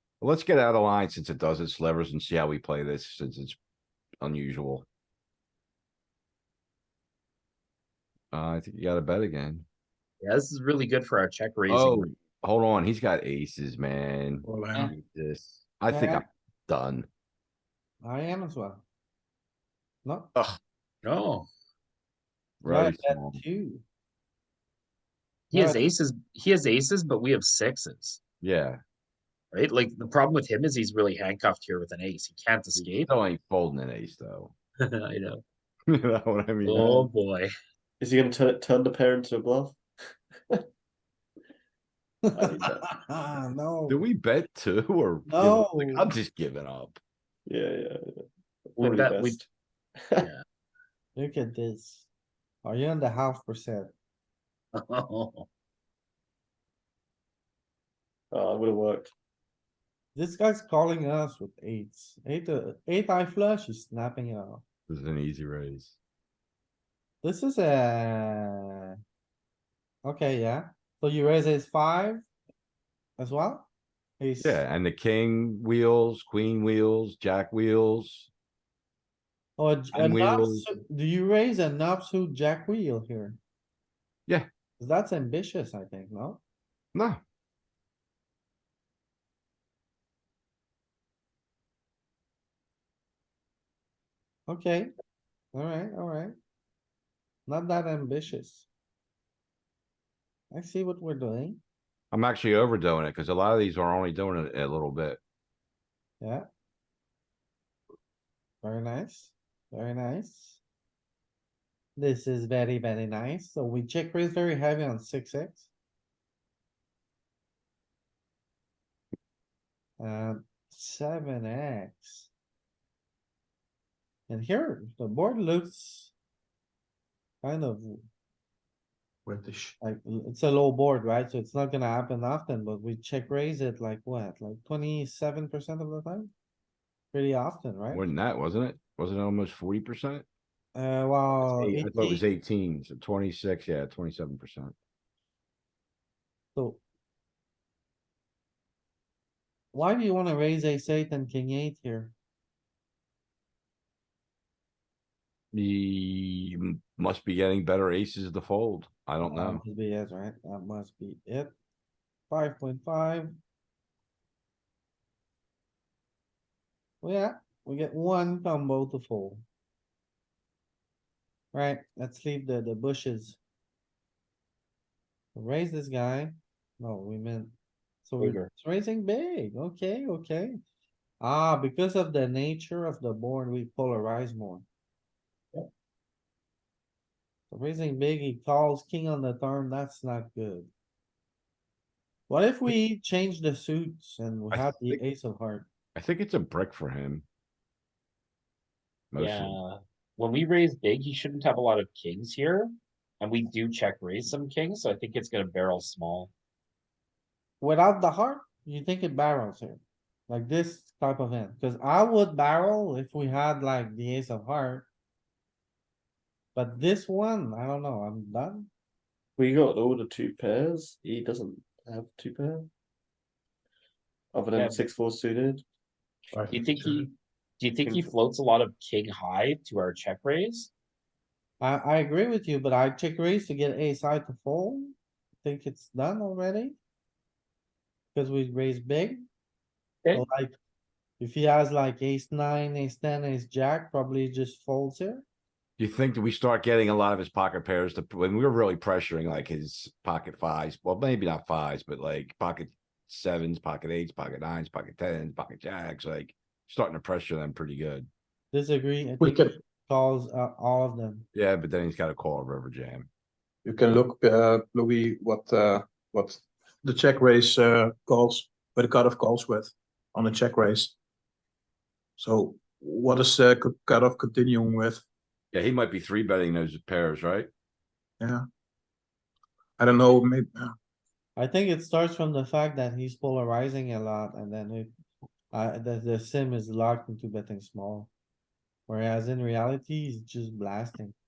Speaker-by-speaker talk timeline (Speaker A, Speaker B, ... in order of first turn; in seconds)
Speaker A: 0.2-3.6, 4.2-4.9, 8.3-9.7, 11.7-17.1, 22.6-23.4, 28.4-28.8, 33.0-34.5, 35.9-36.8, 43.9-47.0, 64.9-66.0, 74.4-78.3, 79.9-80.7, 86.9-87.2, 102.1-105.2, 137.9-140.2, 141.4-144.7, 155.5-159.6, 194.5-195.0, 195.9-197.2, 199.1-199.6, 245.8-258.1, 261.3-263.1, 275.5-277.5
Speaker B: 10.2-12.1, 21.0-21.5, 25.5-28.2, 29.5-33.1, 34.9-35.4, 36.6-37.5, 48.8-49.4, 54.8-55.5, 178.2-178.5, 199.2-206.3, 224.6-224.8, 226.5-230.7
Speaker C: 14.4-14.9, 129.3-129.7, 226.3-227.1, 259.2-259.6, 263.6-271.0, 272.2-275.0, 279.8-280.5
Speaker D: 15.9-16.3, 18.0-18.8, 20.1-20.3, 22.6-23.8, 25.5-25.9, 42.3-44.0, 45.3-46.1, 51.2-52.1, 52.6-53.9, 60.1-64.6, 67.2-68.9, 70.0-72.3, 73.2-74.6, 79.6-83.4, 84.8-86.4, 94.5-94.9, 95.5-96.3, 97.5-98.7, 100.5-101.6, 106.2-106.5, 108.6-110.6, 112.0-115.7, 120.0-122.3, 124.3-126.1, 127.4-128.1, 129.8-136.3, 137.1-138.1, 140.8-142.2, 146.6-146.8, 149.7-152.2, 159.2-161.5, 162.3-163.4, 167.0-169.4, 171.5-173.4, 175.3-180.6, 181.2-184.7, 187.5-190.7, 192.3-195.7, 207.6-214.9, 216.6-218.7, 231.6-236.8, 238.1-239.3, 240.1-240.6, 241.2-245.2, 258.5-261.3, 281.4-284.9, 285.5-288.1, 288.9-291.1
Speaker E: 36.7-37.1, 38.0-39.8, 42.3-42.9, 47.5-48.2, 48.8-49.5, 50.0-50.3, 58.3-59.1, 219.4-222.7, 224.3-225.6, 227.8-228.1